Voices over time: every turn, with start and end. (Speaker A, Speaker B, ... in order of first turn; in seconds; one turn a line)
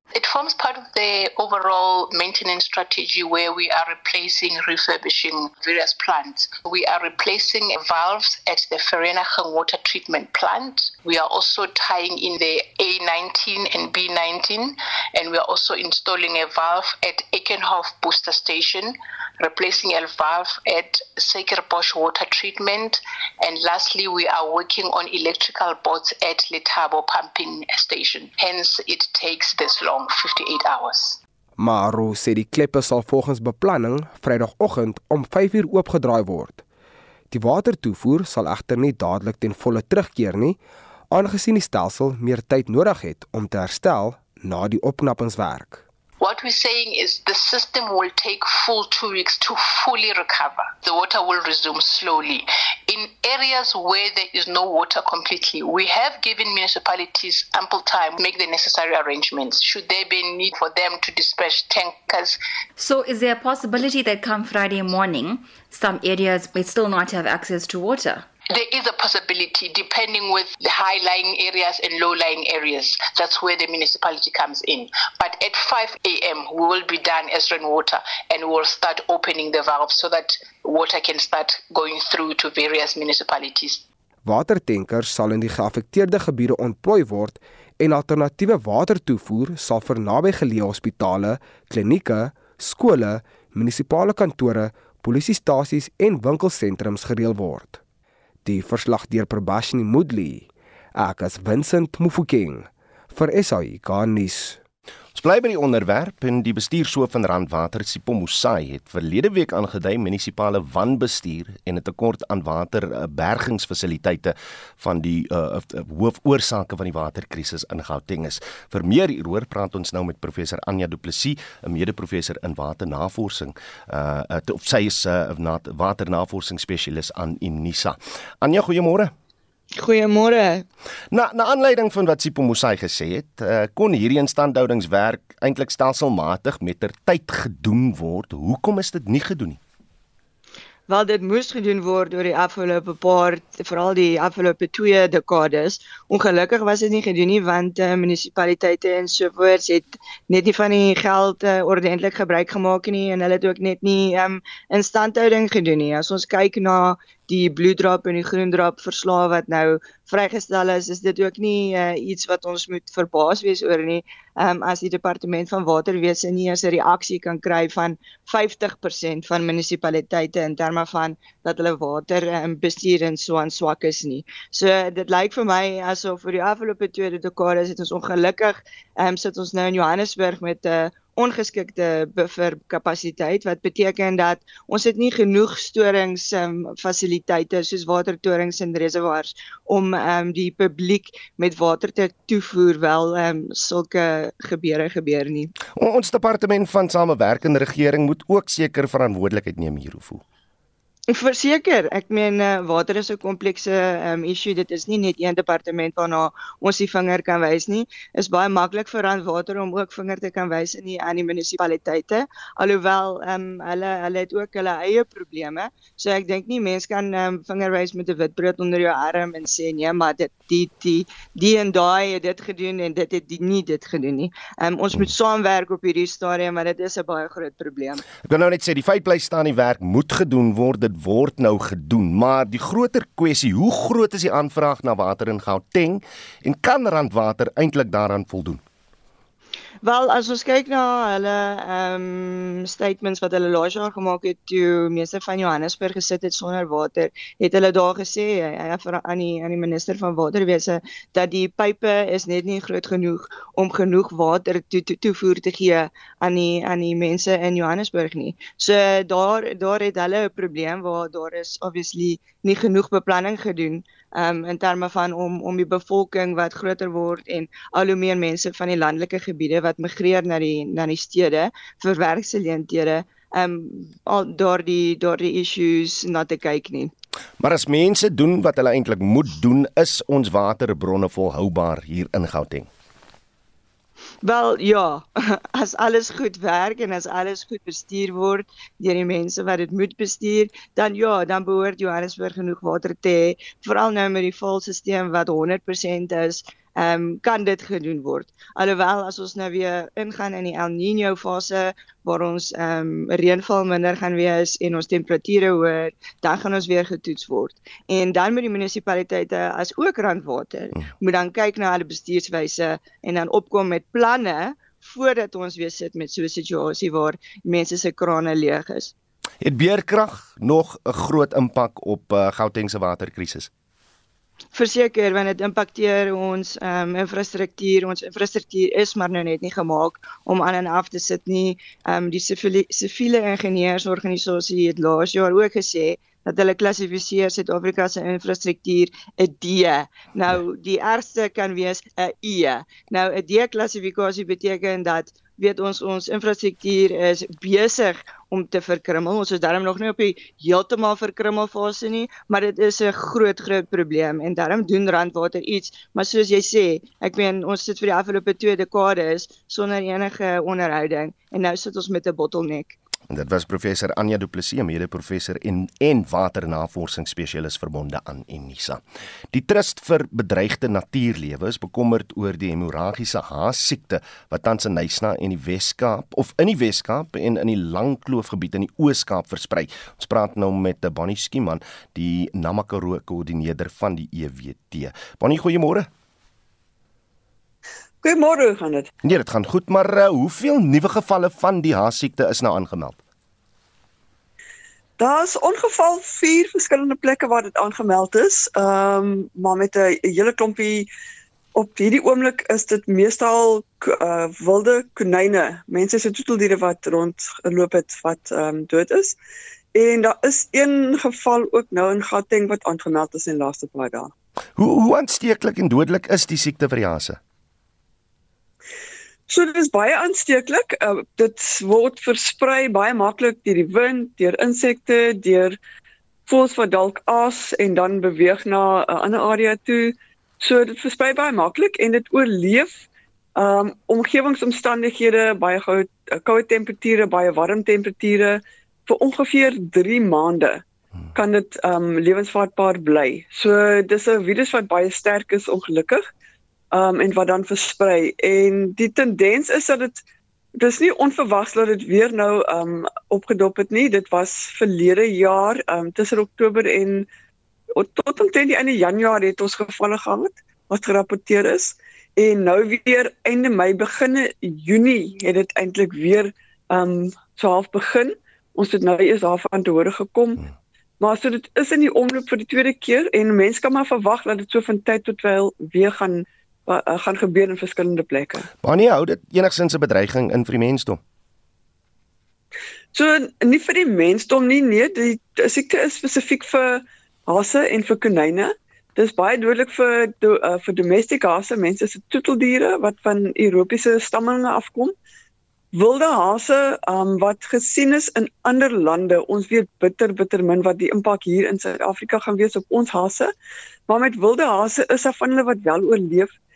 Speaker A: 0.1-31.2
Speaker B: 31.6-36.6
Speaker B: 37.3-40.6
Speaker B: 41.1-45.8
Speaker A: 46.2-62.4
Speaker C: 62.8-68.3
Speaker A: 68.5-83.8
Speaker B: 84.2-97.8
Speaker B: 98.4-104.6
Speaker D: 105.1-129.1
Speaker E: 129.7-130.6
Speaker D: 131.1-139.6
Speaker E: 140.9-195.5
Speaker D: 195.7-200.2
Speaker E: 201.1-228.0
Speaker D: 228.2-238.6
Speaker E: 239.8-276.9
Speaker D: 277.4-282.7
Speaker E: 284.2-318.9
Speaker D: 319.4-323.5
Speaker E: 324.5-362.8
Speaker D: 363.1-385.9
Speaker F: 388.0-388.9
Speaker D: 389.0-393.0
Speaker F: 395.0-400.9
Speaker F: 401.5-409.2
Speaker F: 409.7-414.1
Speaker D: 414.6-417.2
Speaker F: 419.3-425.6
Speaker F: 426.3-432.8
Speaker F: 433.4-440.6
Speaker F: 441.1-446.0
Speaker F: 446.7-450.0
Speaker F: 450.6-457.1
Speaker F: 457.7-470.4
Speaker F: 471.0-478.5
Speaker D: 478.6-481.0
Speaker F: 482.9-494.9
Speaker F: 495.7-503.3
Speaker F: 503.9-506.3